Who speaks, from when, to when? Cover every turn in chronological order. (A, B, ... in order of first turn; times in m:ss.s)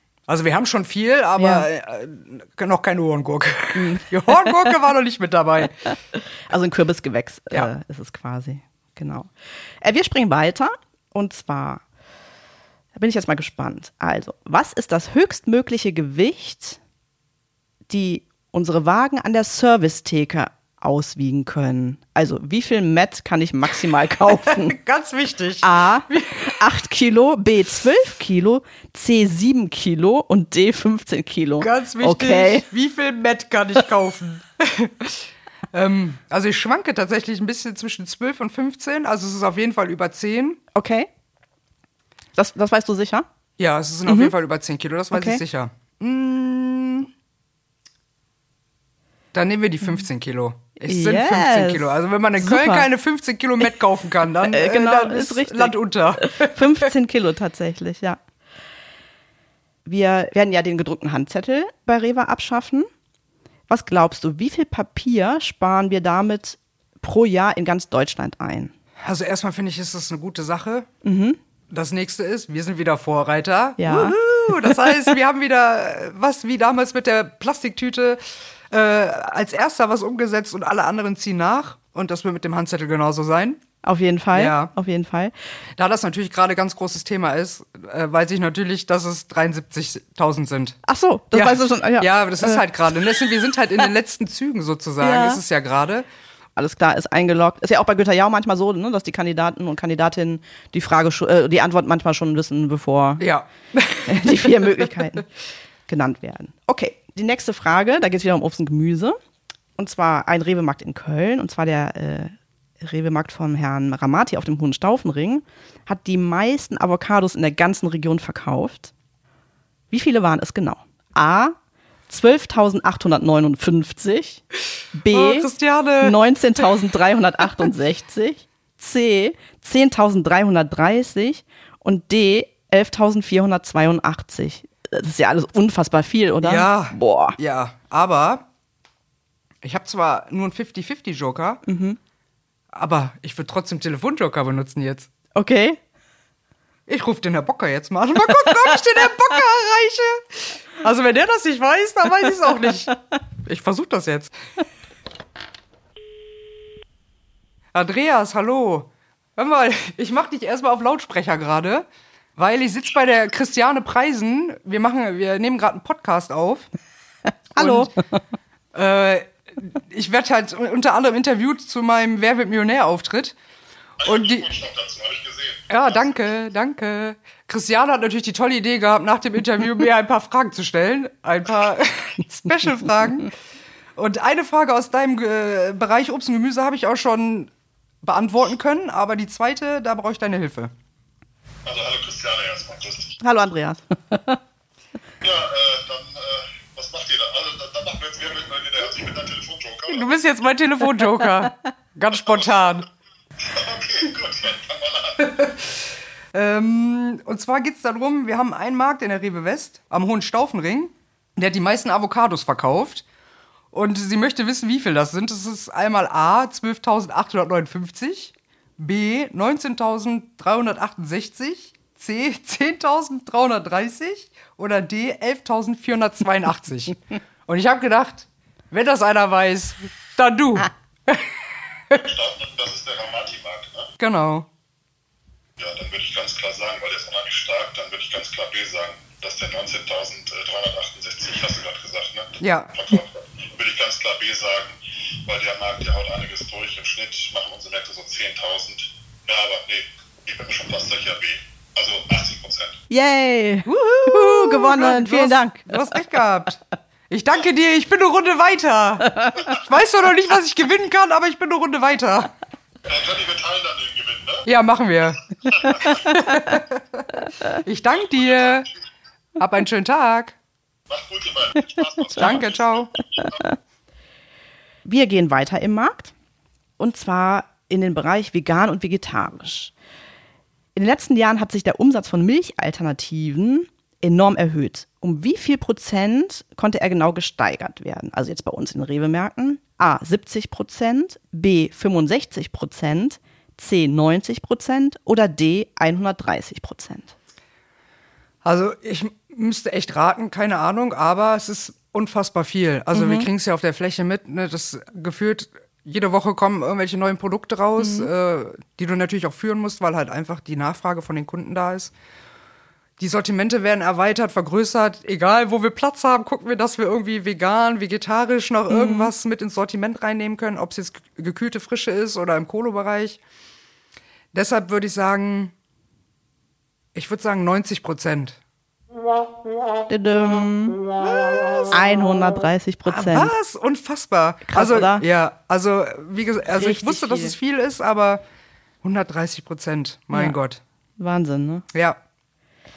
0:00.3-0:05.8 A
0:01.4-0:01.7 B
0:03.7-0:04.7 B
0:05.8-0:09.3 B
0:09.8-0:11.8 B
0:12.9-0:16.8 B
0:17.9-0:24.8 B
0:24.2-0:26.6 A
0:25.6-0:32.6 B
0:31.6-0:40.6 A
0:40.7-0:41.1 B
0:42.4-0:43.3 B
0:43.6-0:47.1 A
0:44.1-0:44.3 B
0:45.1-0:45.4 B
0:49.3-0:56.8 A
0:50.8-0:52.9 B
0:54.4-0:58.2 B
0:59.8-1:02.9 B
1:03.7-1:08.7 B
1:09.0-1:10.9 A
1:11.0-1:11.4 B
1:11.7-1:23.6 A
1:13.8-1:15.1 B
1:23.8-1:25.3 B
1:24.3-1:24.7 A
1:25.8-1:30.8 A
1:30.8-1:32.6 B
1:31.3-1:36.0 A
1:35.0-1:35.4 B
1:36.6-1:43.2 B
1:43.2-1:45.0 A
1:44.1-1:45.2 B
1:45.9-1:49.2 B
1:49.8-1:58.9 B
1:59.9-2:01.6 B
2:02.1-2:04.4 B
2:04.9-2:05.5 B
2:05.1-2:06.6 A
2:06.0-2:17.4 B
2:16.4-2:18.4 A
2:19.6-2:21.6 A
2:21.6-2:22.0 B
2:22.7-2:25.1 A
2:25.3-2:25.8 B
2:26.9-2:34.3 A
2:28.4-2:28.7 B
2:37.7-2:46.7 A
2:47.5-2:48.0 B
2:47.6-2:47.9 A
2:48.7-2:53.3 A
2:54.0-2:56.3 C
2:54.0-2:54.5 A
2:55.7-3:03.3 A
3:04.0-3:07.5 A
3:08.0-3:10.7 A
3:11.6-3:13.2 C
3:13.2-3:14.4 B
3:15.2-3:20.2 C
3:19.9-3:22.8 A
3:23.4-3:25.6 C
3:26.3-3:33.0 A
3:33.7-3:51.3 A
3:51.9-3:53.9 C
3:54.0-3:54.5 A
3:55.6-4:12.8 C
4:02.4-4:02.7 A
4:12.9-4:15.9 B
4:13.6-4:16.6 A
4:17.1-4:22.3 A
4:19.1-4:19.5 B
4:22.9-4:24.5 C
4:24.4-4:28.7 A
4:25.5-4:26.0 C
4:25.8-4:26.3 B
4:28.2-4:28.6 C
4:29.4-4:30.4 A
4:30.9-4:33.4 C
4:32.2-4:32.9 A
4:33.2-4:33.6 B
4:34.8-4:36.1 B
4:36.8-4:39.7 B
4:40.8-4:57.1 B
4:58.4-5:11.9 A
5:02.9-5:03.3 B
5:07.8-5:08.1 B
5:13.0-5:23.2 A
5:18.7-5:19.1 B
5:24.3-5:25.5 A
5:26.9-5:28.4 A
5:29.9-5:30.8 B
5:31.0-5:31.8 A
5:31.7-5:33.3 B
5:32.8-5:38.2 A
5:34.5-5:35.0 B
5:36.5-5:37.4 B
5:38.8-5:40.6 A
5:41.0-5:41.6 B
5:41.7-5:42.0 A